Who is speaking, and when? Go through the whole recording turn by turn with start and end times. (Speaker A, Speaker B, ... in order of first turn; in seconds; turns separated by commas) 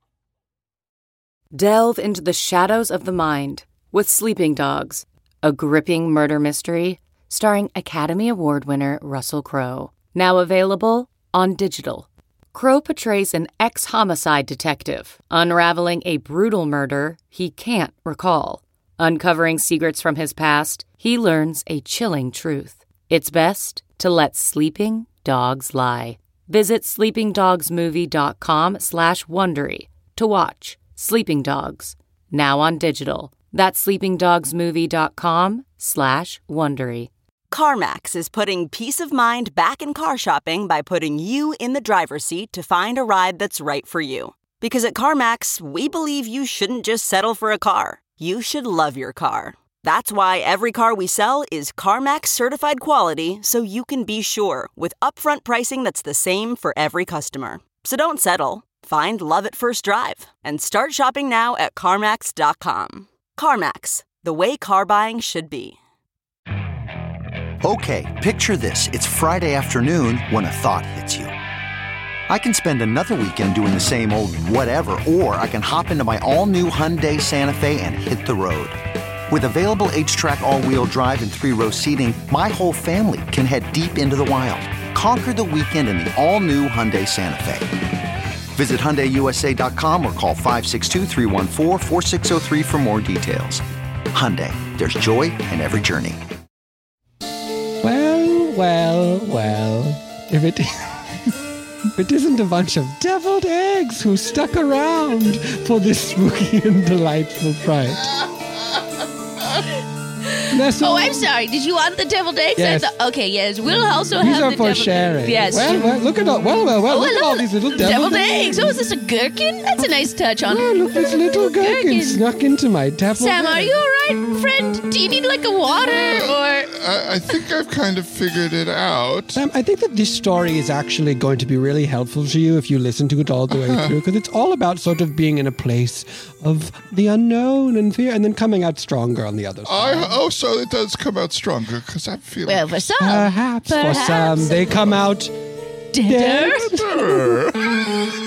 Speaker A: 1.5-37.1, Speaker B: 37.5-65.8, Speaker C: 67.6-71.3, Speaker C: 72.3-78.8, Speaker C: 79.3-87.7, Speaker C: 88.5-96.2, Speaker D: 97.8-100.7, Speaker D: 102.0-108.1, Speaker E: 110.4-115.8, Speaker D: 110.5-111.3, Speaker D: 112.6-112.9, Speaker D: 114.2-118.8, Speaker E: 116.9-120.7, Speaker D: 120.5-123.8, Speaker E: 121.5-122.2, Speaker E: 123.2-126.7, Speaker F: 125.9-129.4, Speaker D: 129.3-140.2, Speaker F: 133.5-133.9, Speaker F: 139.7-142.8, Speaker E: 142.5-144.8, Speaker D: 143.0-145.3, Speaker E: 145.9-146.8, Speaker D: 146.0-147.4, Speaker F: 146.7-147.6